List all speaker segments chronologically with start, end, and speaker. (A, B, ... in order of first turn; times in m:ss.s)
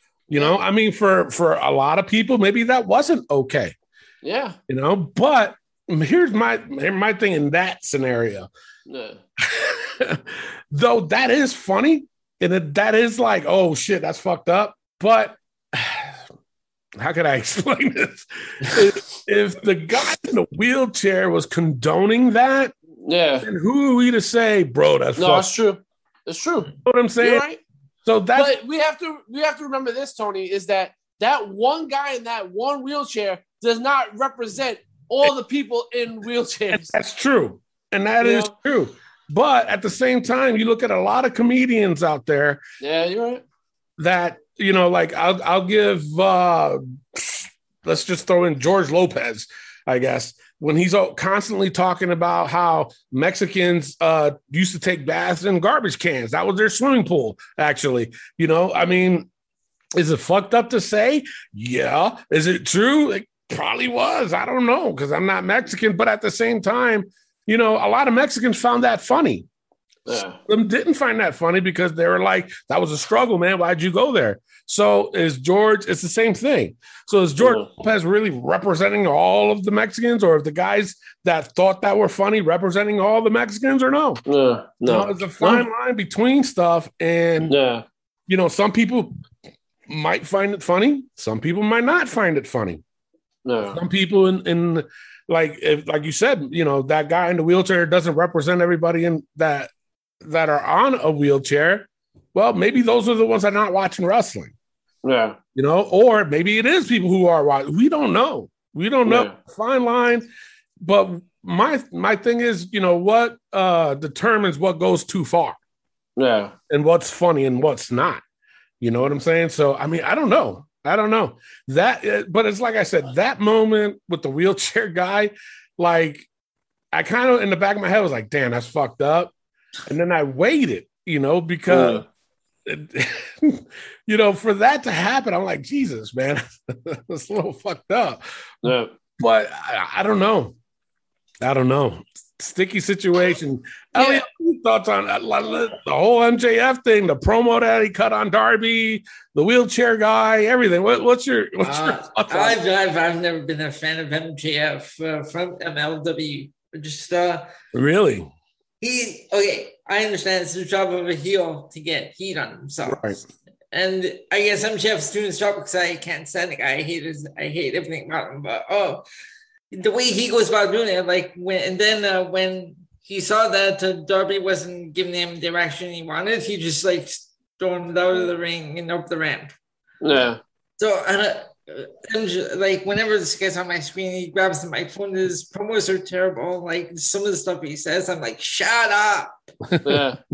0:00.3-0:03.7 A
0:04.2-0:04.6 B
0:04.7-0:08.5 A
0:08.9-0:09.2 B
0:09.4-0:16.2 A
0:17.0-0:22.7 A
0:23.0-0:23.5 B
0:23.4-0:25.5 A
0:25.2-0:27.6 B
0:26.8-0:27.4 A
0:28.0-0:28.5 A
0:28.3-0:36.9 B
0:36.7-0:42.6 A
0:38.2-0:38.5 B
0:42.8-0:43.4 B
0:44.0-0:59.3 A
1:00.0-1:09.4 A
1:10.1-1:10.4 B
1:10.5-1:24.2 A
1:17.4-1:17.7 B
1:24.3-1:25.6 B
1:24.8-1:27.6 A
1:27.4-1:27.8 B
1:28.3-1:29.1 A
1:29.9-1:32.8 A
1:33.4-1:33.8 B
1:33.6-1:39.7 A
1:40.2-1:44.5 A
1:45.0-1:45.4 B
1:45.5-1:50.3 A
1:49.0-1:49.3 B
1:50.8-1:55.6 A
1:56.2-1:56.5 B
1:56.7-1:58.2 A
1:58.8-2:06.3 A
2:06.9-2:09.3 A
2:09.9-2:12.0 A
2:11.7-2:12.0 B
2:12.6-2:20.6 A
2:18.6-2:18.9 B
2:21.4-2:32.6 A
2:24.0-2:24.2 B
2:31.6-2:37.5 C
2:37.7-2:38.3 A
2:38.8-2:43.2 C
2:42.8-2:43.2 A
2:43.7-2:49.0 C
2:49.7-2:59.5 C
3:00.0-3:00.4 B
3:00.8-3:09.4 C
3:09.7-3:10.0 A
3:09.8-3:10.2 B